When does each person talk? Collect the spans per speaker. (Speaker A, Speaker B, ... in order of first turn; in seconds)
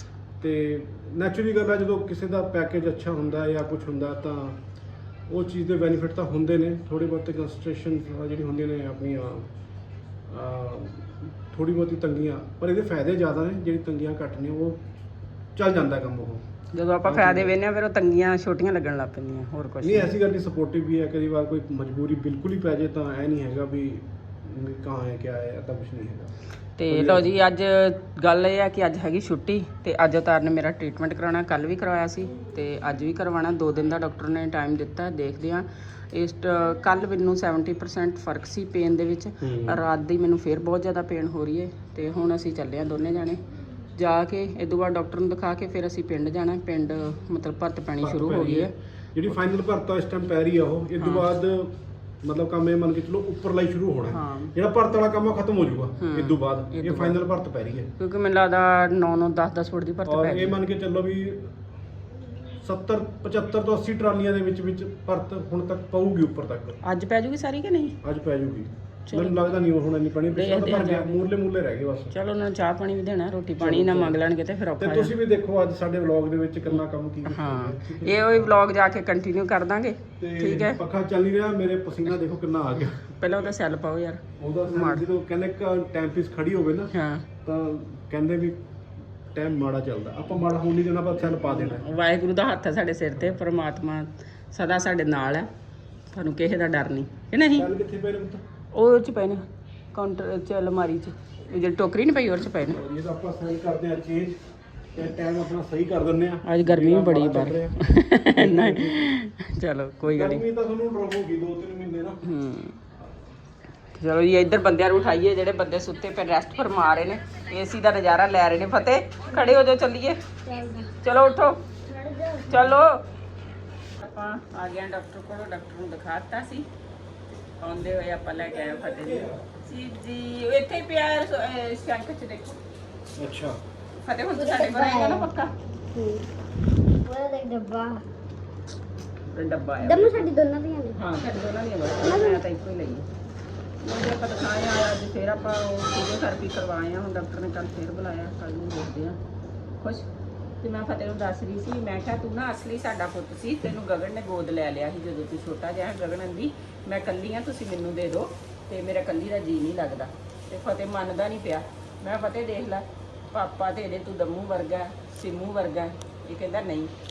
Speaker A: 0.4-4.6, 5.3-9.5, 10.3-14.8, 15.6-16.4, 17.0-17.5, 19.8-26.3, 26.9-27.3, 39.4-39.8, 48.0-57.9, 60.0-61.5, 62.6-66.8, 68.0-72.1, 73.6-74.2, 74.8-78.6, 80.2-83.1, 84.4-86.9, 87.4-88.6, 89.3-91.8, 93.1-93.4, 97.5-98.4, 102.6-104.4, 104.9-109.1, 110.0-112.2, 128.3-129.4, 133.2-133.6
Speaker B: 16.7-20.1, 26.8-43.4, 43.9-48.7, 51.0-51.3, 54.1-54.5, 56.0-57.2, 58.0-60.5, 66.8-68.0, 69.1-69.6, 70.3-71.1, 72.1-75.1, 76.7-80.8, 83.0-85.1, 86.9-87.2, 91.3-95.5, 96.1-97.7, 98.7-102.8, 106.5-110.4, 112.2-112.8, 114.0-120.2, 121.0-121.6, 122.5-123.0, 124.0-126.7, 127.6-132.6, 134.0-135.5, 139.3-140.3, 140.9-143.1, 143.8-149.2, 149.8-150.1, 150.6-166.9
Speaker C: 120.4-120.9, 121.8-122.7, 134.3-135.3, 135.9-136.2, 137.0-138.0, 139.8-141.0, 142.0-142.4